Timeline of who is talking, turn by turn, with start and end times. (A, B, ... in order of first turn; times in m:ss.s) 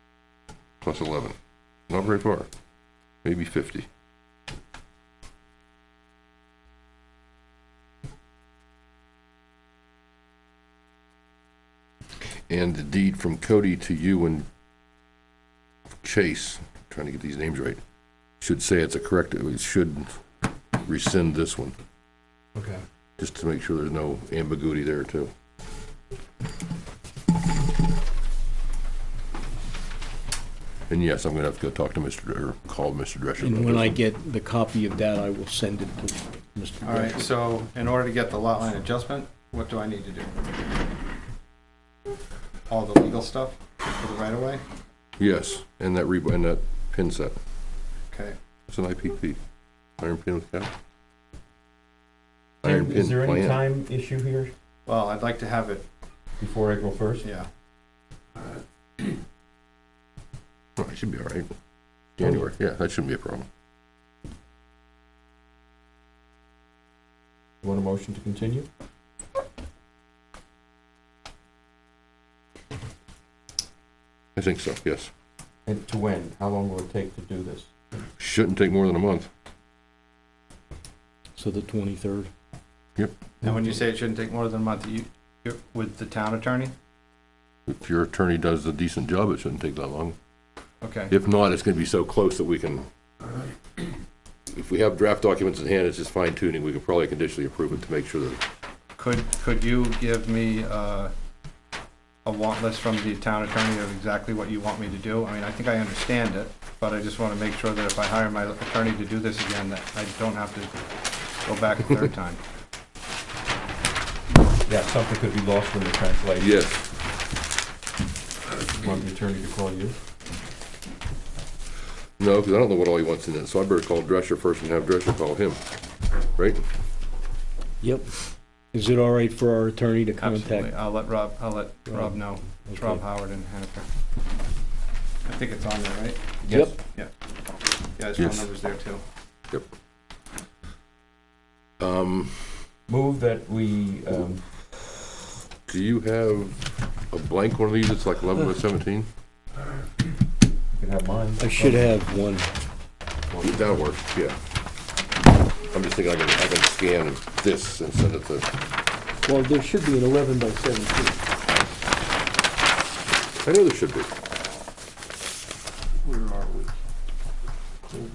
0:00.8-0:01.4 A
0:01.9-0:02.5 A
0:03.2-0:03.9 A
0:12.5-0:14.4 A
0:16.0-0:17.8 A
0:18.4-0:20.2 A
0:20.8-0:21.8 A
0:22.5-0:22.8 B
0:23.2-0:25.3 A
0:30.9-0:34.0 A
0:33.4-0:37.2 C
0:36.8-0:40.3 B
0:42.7-0:44.6 B
0:45.2-0:47.4 A
0:48.1-0:48.4 B
0:48.7-0:49.4 A
0:50.0-0:50.7 A
0:52.6-0:53.6 A
0:52.6-0:54.5 D
0:54.8-0:55.8 B
0:56.4-0:57.3 D
0:57.2-0:57.5 B
1:00.8-1:01.5 A
1:02.2-1:03.5 A
1:02.2-1:02.4 D
1:07.6-1:08.7 D
1:14.3-1:15.1 A
1:15.6-1:17.7 D
1:18.2-1:19.3 A
1:21.4-1:22.3 C
1:23.4-1:26.7 B
1:27.7-1:30.2 A
1:30.8-1:31.1 B
1:31.1-1:32.9 A
1:34.5-1:38.4 A
1:39.0-1:41.1 B
1:42.2-1:50.7 B
1:51.4-1:52.4 B
1:54.6-1:56.6 D
1:56.4-1:56.9 A
1:58.6-2:00.0 D
2:02.2-2:05.6 A
2:06.3-2:06.6 A
2:07.8-2:08.1 C
2:08.7-2:10.7 C
2:10.2-2:13.8 B
2:11.9-2:13.0 C
2:15.2-2:16.3 B
2:16.4-2:16.8 D
2:18.0-2:19.0 B
2:18.2-2:18.5 A
2:21.8-2:22.6 A
2:22.9-2:24.4 D
2:25.6-2:29.1 A
2:30.7-2:31.9 D
2:31.4-2:32.5 C
2:33.3-2:33.6 D
2:33.4-2:34.4 A
2:35.7-2:38.5 A
2:39.2-2:41.2 C
2:43.4-2:44.1 A
2:46.1-2:46.6 C